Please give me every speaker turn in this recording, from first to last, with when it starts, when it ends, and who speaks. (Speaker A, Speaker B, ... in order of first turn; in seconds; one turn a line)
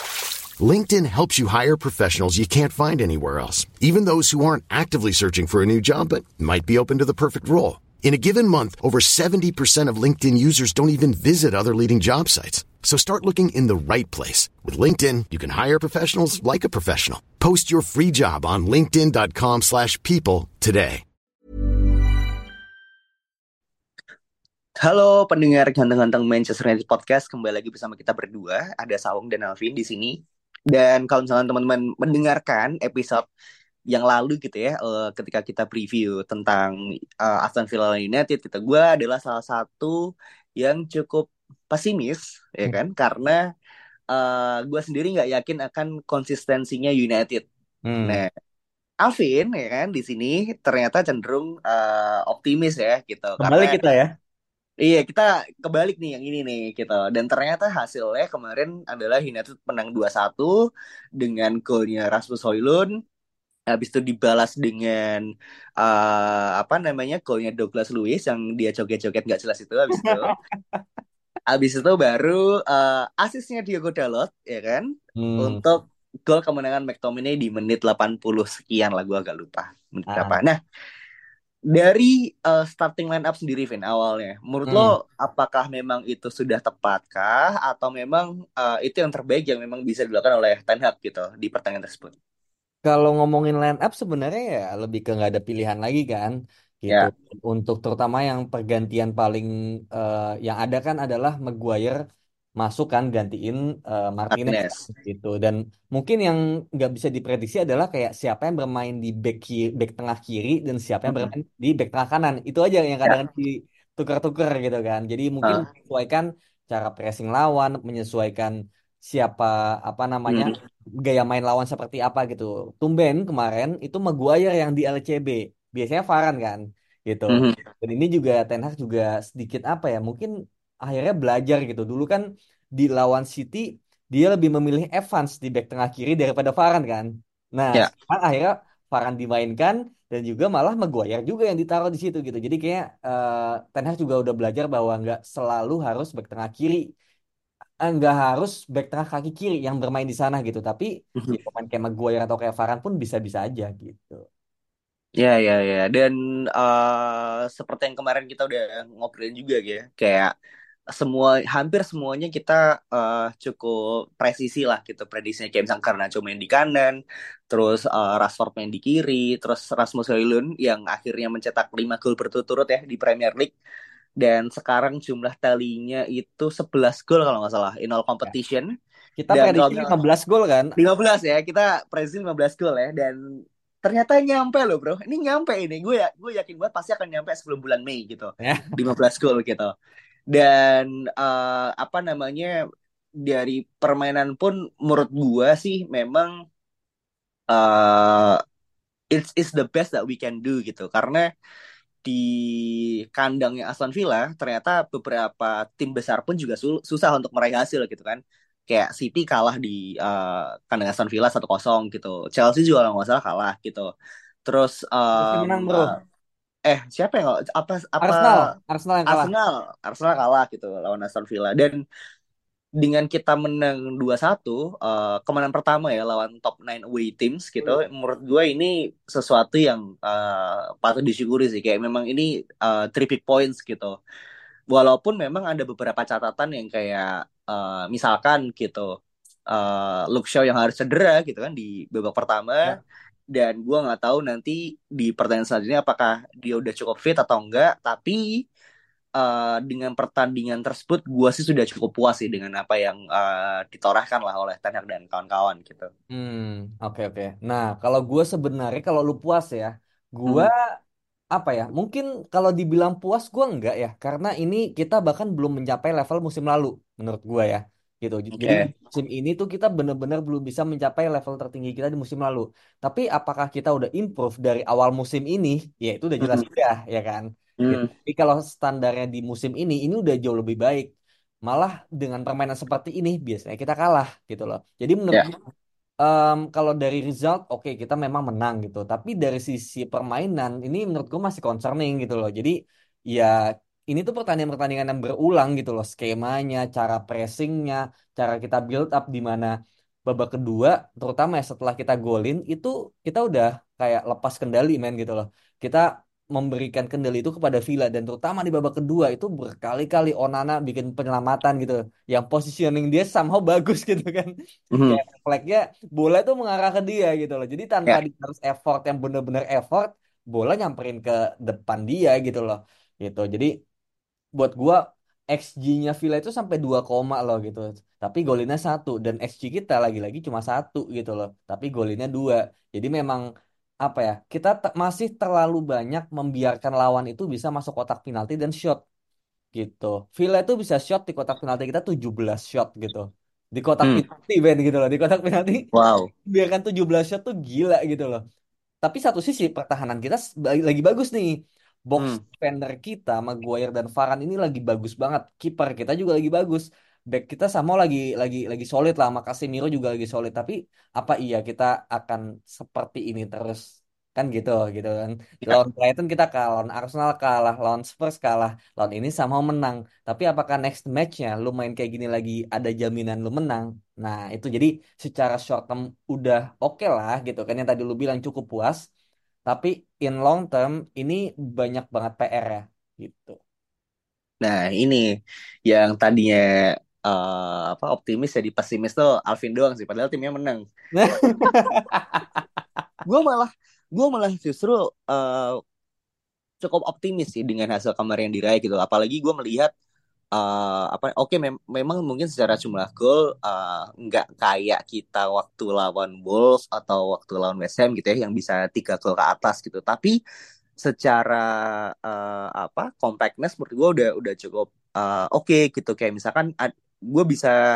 Speaker A: 0.6-21.0
Speaker B: 24.8-33.2
Speaker B: 33.9-40.0
Speaker B: 40.6-43.4
Speaker B: 44.1-47.4
Speaker C: 47.9-48.2
Speaker B: 49.0-53.8
Speaker C: 53.4-54.1
Speaker B: 54.8-60.6
Speaker B: 61.2-62.9
Speaker B: 63.7-65.2
Speaker B: 65.8-70.3
Speaker C: 70.0-70.8
Speaker B: 71.5-74.9
Speaker C: 75.2-75.6
Speaker B: 75.4-80.6
Speaker C: 80.1-80.4
Speaker B: 81.7-92.1
Speaker C: 84.7-84.9
Speaker C: 92.8-102.0
Speaker C: 102.6-130.3
Speaker B: 104.3-104.8
Speaker B: 111.1-111.3
Speaker B: 120.3-120.5
Speaker B: 127.3-127.5
Speaker C: 130.8-132.2
Speaker C: 132.8-146.9
Speaker C: 147.8-154.2
Speaker B: 155.2-160.3
Speaker B: 160.9-173.5
Speaker B: 174.2-178.7
Speaker C: 179.2-180.7
Speaker B: 179.3-179.9
Speaker B: 180.8-183.2
Speaker B: 183.8-189.7
Speaker C: 188.4-188.7
Speaker B: 190.3-192.5
Speaker B: 193.2-196.3
Speaker B: 197.5-198.4
Speaker B: 199.1-201.2
Speaker B: 202.0-213.9
Speaker B: 214.4-215.9
Speaker C: 215.2-215.9
Speaker B: 216.7-218.4
Speaker C: 218.0-219.3
Speaker B: 219.1-221.8
Speaker B: 222.8-233.9
Speaker B: 234.7-238.9
Speaker B: 239.5-242.8
Speaker B: 243.3-248.2
Speaker B: 249.2-255.9
Speaker C: 256.1-260.7
Speaker C: 261.3-280.9
Speaker B: 268.4-268.7
Speaker B: 277.6-277.9
Speaker C: 281.4-285.3
Speaker C: 286.0-292.5
Speaker C: 293.1-299.5
Speaker C: 300.1-314.3
Speaker B: 314.7-315.0
Speaker C: 314.9-323.5
Speaker C: 324.4-324.8
Speaker C: 325.3-333.2
Speaker C: 333.8-338.8
Speaker C: 339.6-345.6
Speaker B: 345.7-346.1
Speaker C: 346.3-348.2
Speaker C: 348.8-351.3
Speaker C: 351.9-378.8
Speaker C: 379.5-383.4
Speaker B: 384.4-385.1
Speaker B: 385.6-390.6
Speaker C: 390.9-392.2
Speaker B: 393.0-395.6
Speaker B: 396.6-399.7
Speaker B: 400.3-410.1
Speaker B: 410.8-417.6